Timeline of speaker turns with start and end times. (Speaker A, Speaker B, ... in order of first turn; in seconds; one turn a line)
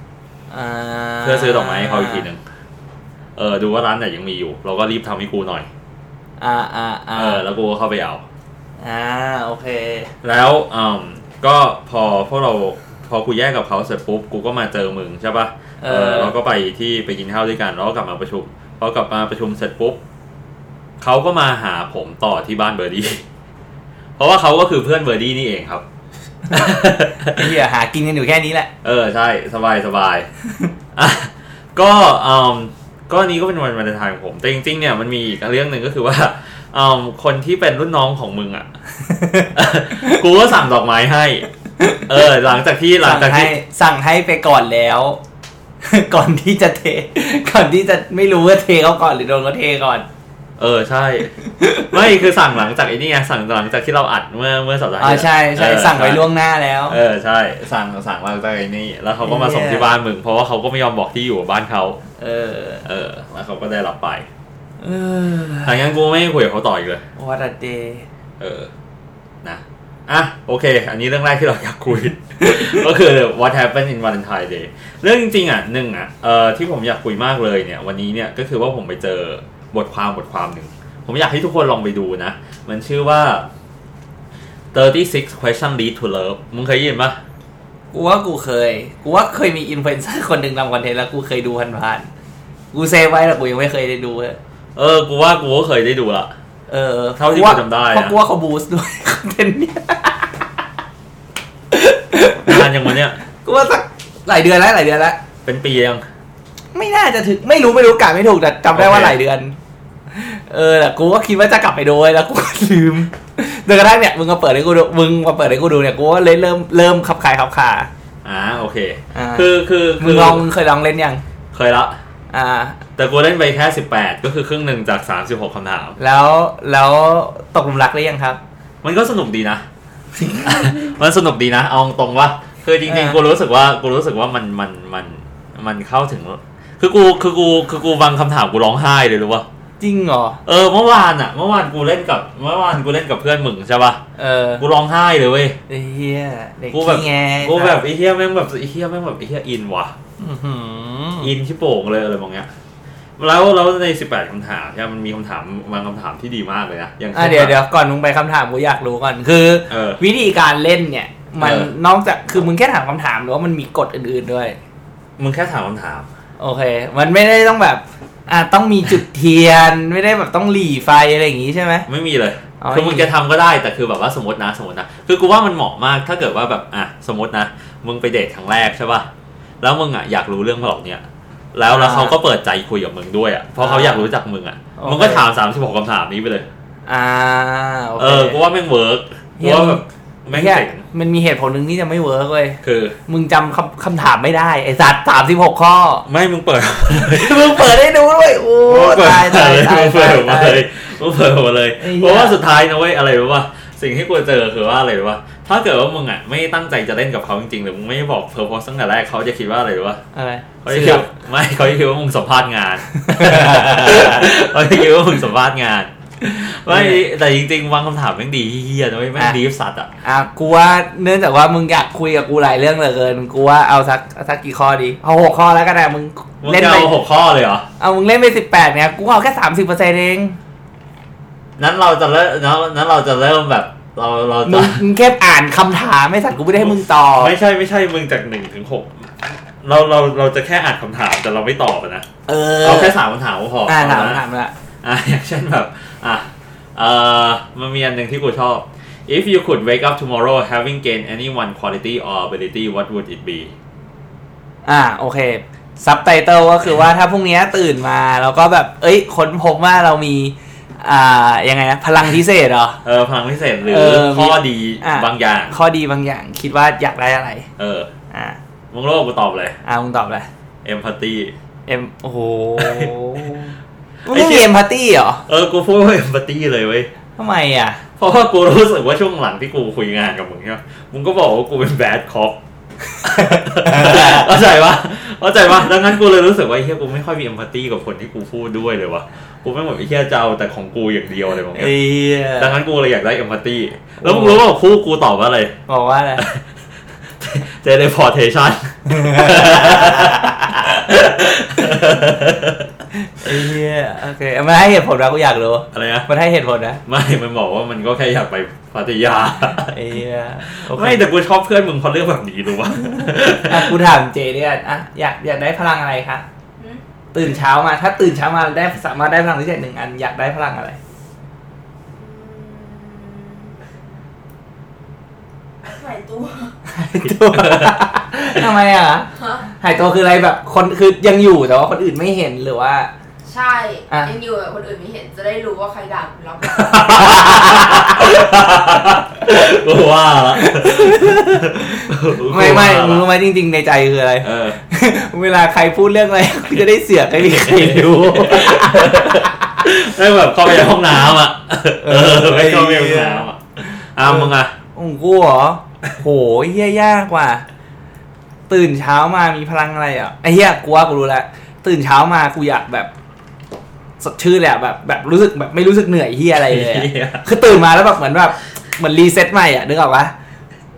Speaker A: 0.5-2.3
Speaker B: 1.2-2.4
Speaker B: 3.4-5.7
Speaker A: 6.4-7.4
Speaker B: 7.2-8.2
Speaker A: 8.8-10.1
Speaker B: 10.2-20.0
Speaker A: 15.8-16.3
Speaker B: 21.0-23.2
Speaker B: 24.2-25.8
Speaker B: 26.5-27.5
Speaker A: 26.5-28.7
Speaker B: 28.8-30.3
Speaker B: 30.9-38.7
Speaker A: 39.0-40.2
Speaker B: 39.5-41.5
Speaker A: 41.8-42.0
Speaker B: 42.0-43.5
Speaker A: 43.0-45.2
Speaker A: 45.8-50.0
Speaker B: 50.6-56.3
Speaker A: 51.6-51.9
Speaker A: 55.0-57.0
Speaker B: 56.9-62.0
Speaker A: 59.2-59.9
Speaker A: 62.2-62.8
Speaker B: 62.8-64.3
Speaker A: 64.8-65.8
Speaker B: 65.6-67.0
Speaker A: 67.2-68.0
Speaker B: 68.4-68.7
Speaker B: 69.4-83.5
Speaker B: 84.7-87.2
Speaker A: 87.9-92.1
Speaker A: 92.7-94.4
Speaker B: 94.8-96.3
Speaker A: 96.7-100.5
Speaker B: 97.2-98.1
Speaker A: 101.7-102.7
Speaker B: 102.4-103.2
Speaker A: 103.4-105.2
Speaker B: 105.4-106.0
Speaker A: 106.7-109.5
Speaker B: 108.7-109.2
Speaker A: 110.1-117.9
Speaker B: 118.2-120.4
Speaker A: 119.1-121.2
Speaker B: 121.5-122.0
Speaker A: 122.3-122.8
Speaker B: 123.0-126.0
Speaker A: 126.0-128.4
Speaker B: 128.8-129.6
Speaker A: 130.2-130.7
Speaker B: 130.4-139.5
Speaker A: 132.8-133.2
Speaker A: 139.8-140.4
Speaker B: 140.4-144.0
Speaker A: 144.2-144.6
Speaker B: 144.6-145.6
Speaker A: 145.7-147.8
Speaker B: 146.7-149.9
Speaker A: 150.2-151.3
Speaker B: 151.2-152.5
Speaker B: 153.2-157.6
Speaker A: 157.1-164.6
Speaker B: 159.7-160.0
Speaker B: 161.4-161.7
Speaker B: 165.2-166.1
Speaker A: 166.4-171.9
Speaker B: 171.9-179.1
Speaker A: 172.6-173.1
Speaker B: 179.6-186.5
Speaker A: 181.7-182.2
Speaker A: 183.6-184.1
Speaker A: 184.8-185.2
Speaker A: 186.9-188.4
Speaker B: 188.0-190.8
Speaker A: 189.4-189.8
Speaker A: 190.3-196.1
Speaker B: 192.6-193.0
Speaker B: 196.1-197.7
Speaker A: 197.0-200.6
Speaker B: 198.7-210.0
Speaker A: 201.8-202.4
Speaker A: 210.1-211.1
Speaker B: 210.6-219.9
Speaker A: 213.0-214.2
Speaker A: 216.7-217.0
Speaker A: 220.0-226.9
Speaker B: 226.4-227.7
Speaker A: 227.8-230.4
Speaker B: 231.6-234.8
Speaker A: 234.4-237.3
Speaker B: 236.6-242.1
Speaker A: 242.3-243.0
Speaker B: 242.6-244.2
Speaker A: 243.7-244.5
Speaker B: 244.8-253.5
Speaker A: 254.6-262.8
Speaker B: 262.8-265.6
Speaker A: 263.6-267.5
Speaker B: 267.6-267.9
Speaker A: 268.1-268.4
Speaker B: 268.7-269.6
Speaker A: 269.6-270.3
Speaker B: 270.6-271.3
Speaker A: 271.7-275.2
Speaker B: 272.6-272.9
Speaker B: 274.1-274.5
Speaker B: 275.3-276.9
Speaker A: 277.2-277.8
Speaker B: 278.0-282.4
Speaker A: 282.9-284.3
Speaker B: 283.0-291.8
Speaker A: 291.5-292.6
Speaker B: 292.4-295.6
Speaker A: 294.0-294.4
Speaker A: 295.7-296.2
Speaker B: 296.2-296.4
Speaker B: 297.2-302.7
Speaker A: 298.9-300.6
Speaker A: 302.9-306.8
Speaker B: 305.7-306.1
Speaker B: 306.9-309.8
Speaker A: 309.7-311.0
Speaker B: 310.4-313.8
Speaker A: 313.3-316.2
Speaker A: 317.1-320.8
Speaker C: 321.9-323.7
Speaker C: 325.6-326.5
Speaker A: 326.7-329.1
Speaker B: 327.0-327.8
Speaker C: 329.1-329.5
Speaker A: 329.6-332.9
Speaker C: 333.2-337.1
Speaker B: 336.5-343.1
Speaker A: 336.9-338.1
Speaker A: 340.3-349.5
Speaker B: 344.2-344.6
Speaker B: 347.2-354.5
Speaker A: 351.8-353.2
Speaker A: 354.0-357.4
Speaker A: 358.5-362.9
Speaker A: 364.0-370.1
Speaker B: 366.4-367.2